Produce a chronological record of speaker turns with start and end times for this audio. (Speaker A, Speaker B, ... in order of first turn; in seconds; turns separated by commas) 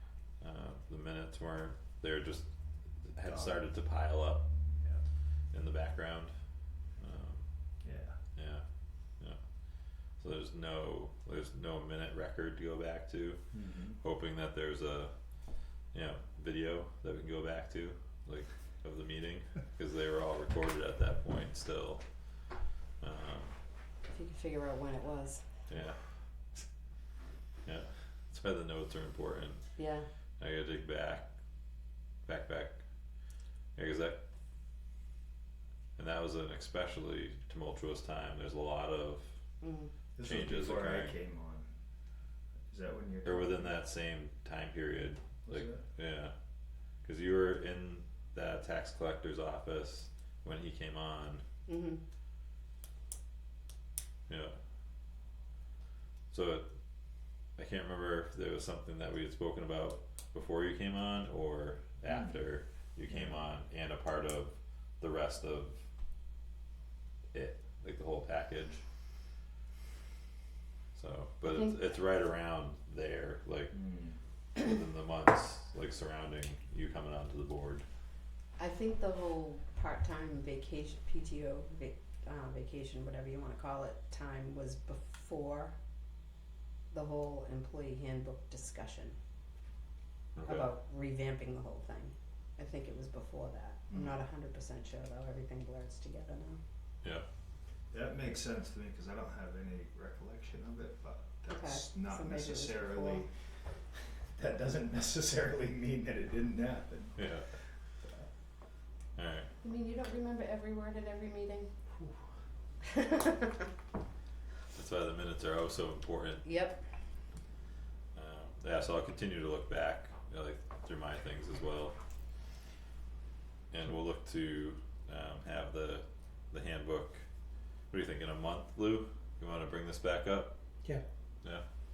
Speaker A: 0.4-2.5, Speaker A: 3.0-4.5, Speaker B: 3.2-3.6, Speaker B: 4.8-5.0, Speaker A: 5.5-6.3, Speaker A: 7.0-7.5, Speaker B: 7.8-8.2, Speaker A: 8.3-8.6, Speaker A: 10.2-15.1, Speaker B: 13.5-14.0, Speaker A: 15.9-22.1, Speaker A: 23.0-23.5, Speaker C: 24.1-25.5, Speaker A: 25.7-26.0, Speaker A: 27.6-29.6, Speaker C: 29.8-30.1, Speaker A: 30.4-31.3, Speaker A: 32.2-32.8, Speaker A: 33.8-34.2, Speaker A: 36.0-39.4, Speaker C: 39.6-39.9, Speaker B: 40.1-41.7, Speaker A: 40.2-41.1, Speaker B: 42.7-43.8, Speaker A: 43.2-46.3, Speaker B: 45.4-45.8, Speaker A: 47.0-51.4, Speaker C: 51.7-52.0, Speaker A: 54.3-54.5, Speaker A: 56.3-56.7, Speaker A: 57.5-65.8, Speaker B: 62.1-62.3, Speaker B: 63.1-63.4, Speaker A: 67.3-68.8, Speaker A: 70.9-73.8, Speaker C: 71.5-71.8, Speaker B: 73.7-74.2, Speaker A: 74.5-77.8, Speaker C: 78.6-85.7, Speaker C: 86.9-89.2, Speaker A: 90.3-90.7, Speaker C: 90.5-96.6, Speaker B: 93.9-94.2, Speaker B: 97.9-108.2, Speaker C: 101.5-103.2, Speaker A: 107.2-107.5, Speaker A: 109.2-109.5, Speaker C: 109.6-111.7, Speaker C: 113.0-113.6, Speaker A: 114.7-116.4, Speaker C: 116.4-116.8, Speaker A: 118.1-122.0, Speaker A: 123.7-127.2, Speaker A: 127.9-130.5